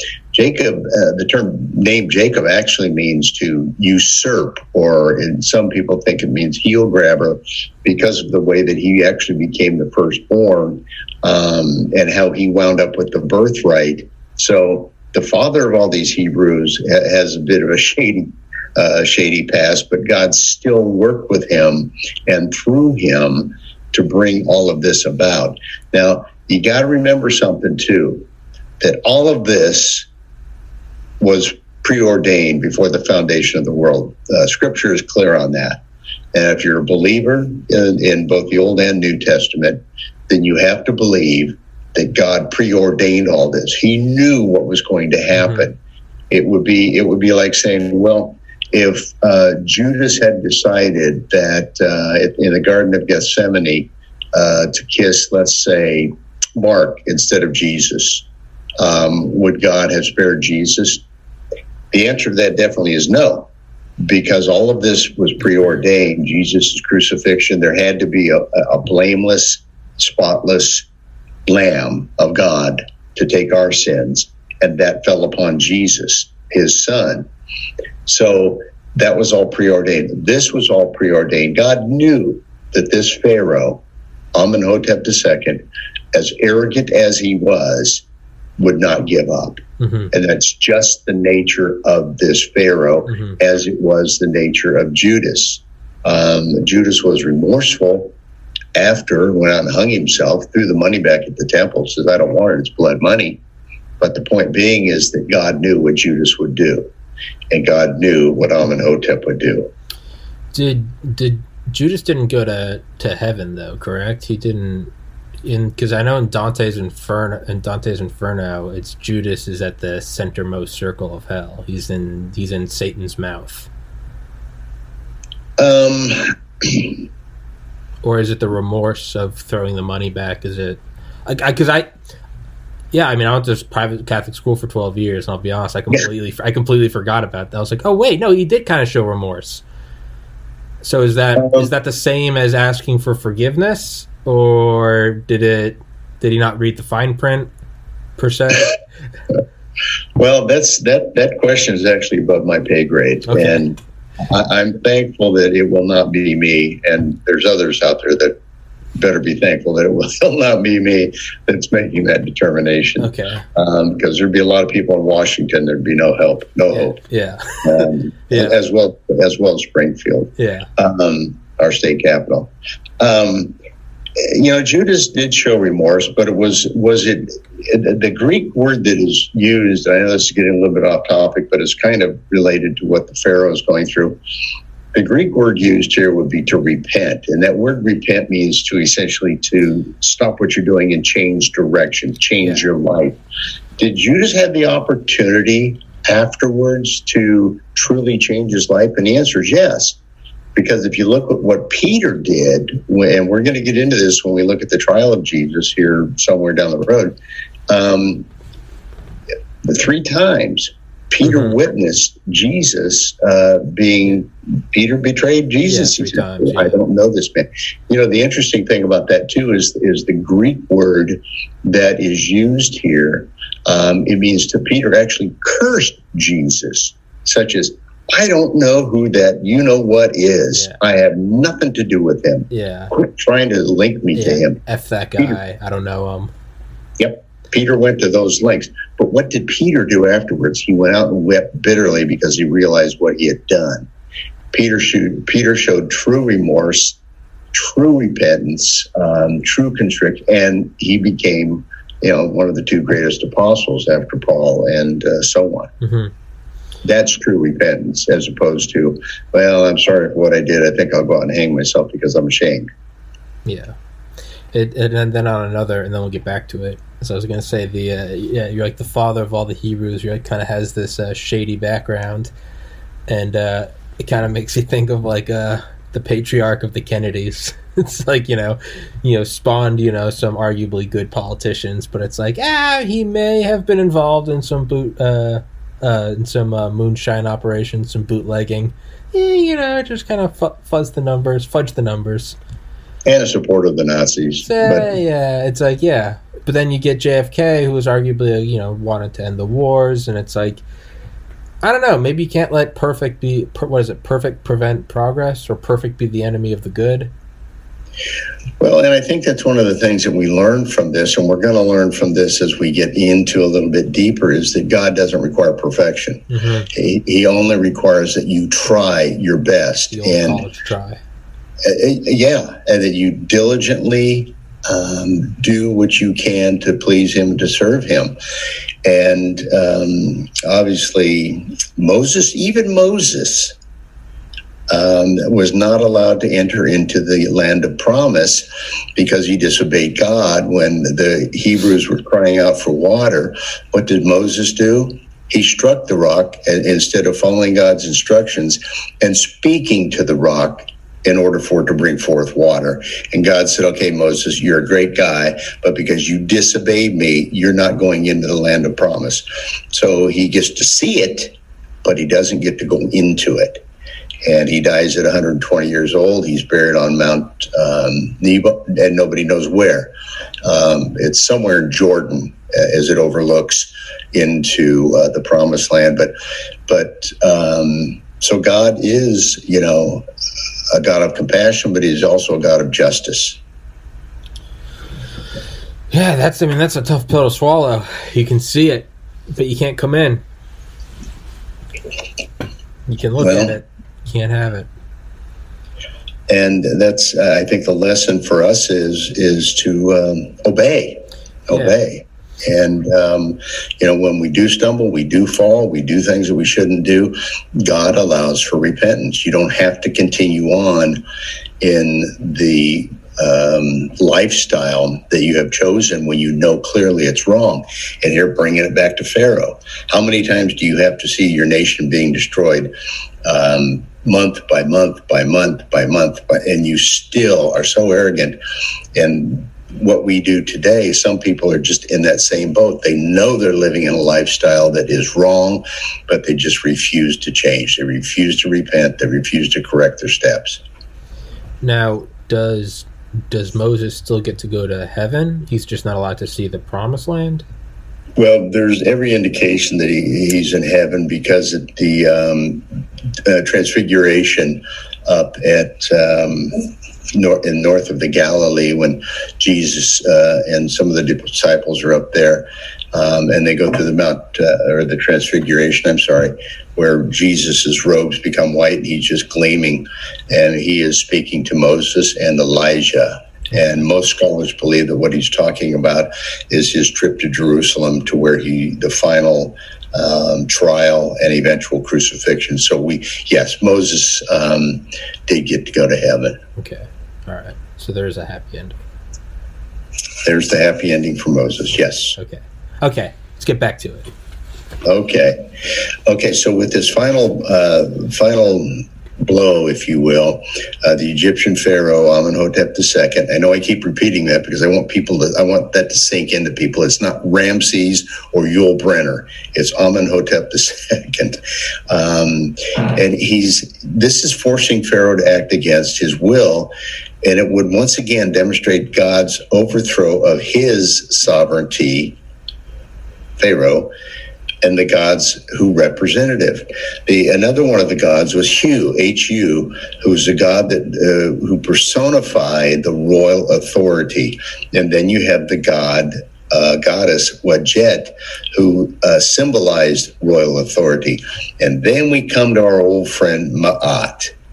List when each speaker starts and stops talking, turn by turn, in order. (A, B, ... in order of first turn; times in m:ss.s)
0:00.3-0:28.2 A
0:28.8-0:30.1 A
0:31.2-0:35.8 A
0:36.3-0:45.8 A
0:45.4-0:45.7 B
0:46.3-0:58.2 A
0:58.8-1:01.0 A
1:01.9-1:03.5 A
1:04.0-1:10.8 A
1:11.4-1:17.3 A
1:18.0-1:23.8 A
1:24.3-1:28.0 A
1:28.6-1:38.1 A
1:29.8-1:30.1 B
1:33.1-1:33.4 B
1:38.7-1:43.4 A
1:44.0-1:46.9 A
1:47.5-1:49.7 A
1:50.5-1:54.9 B
1:55.4-2:03.7 B
2:05.6-2:07.0 A
2:08.0-2:11.9 B
2:12.9-2:19.6 B
2:20.8-2:27.5 B
2:21.4-2:21.7 A
2:28.2-2:28.8 B
2:30.2-2:38.3 A
2:33.3-2:33.6 B
2:39.0-2:47.0 A
2:43.0-2:43.4 B
2:46.7-2:48.6 B
2:47.6-2:53.5 A
2:50.4-2:50.7 B
2:54.2-3:04.2 A
3:04.9-3:13.2 A
3:13.8-3:20.0 A
3:20.5-3:27.2 A
3:27.7-3:28.2 A
3:29.6-3:54.6 A
3:31.2-3:31.5 B
3:35.6-3:36.8 B
3:50.5-3:50.8 B
3:52.5-3:52.9 B
3:54.1-3:56.3 B
3:57.0-4:03.9 A
4:04.5-4:07.0 A
4:07.5-4:15.7 A
4:15.8-4:16.1 B
4:16.8-4:22.7 A
4:23.4-4:23.7 B
4:24.5-4:32.3 B
4:33.1-4:52.4 B
4:53.0-4:54.9 A
4:54.4-5:00.6 B
5:01.6-5:07.1 B
5:08.6-5:20.4 A
5:16.3-5:16.7 B
5:19.9-5:21.0 B
5:21.6-5:28.2 A
5:28.8-5:33.5 A
5:34.7-6:03.6 A
6:04.2-6:09.9 A
6:10.4-6:16.1 A
6:16.7-6:20.0 A
6:20.7-6:23.4 A
6:25.9-6:30.2 B
6:32.9-6:34.7 B
6:33.2-6:33.6 A
6:36.3-6:51.0 A
6:41.5-6:41.8 B
6:51.6-7:02.7 A
7:03.2-7:08.4 A
7:08.9-7:20.6 A
7:21.6-7:27.4 B
7:28.2-7:32.6 A
7:33.2-8:06.4 A
8:06.6-8:08.8 B
8:10.2-8:12.2 A
8:12.1-8:14.1 B
8:14.8-8:15.5 A
8:16.0-8:36.7 A
8:37.2-8:42.2 A
8:43.4-8:43.9 A
8:44.6-9:04.3 A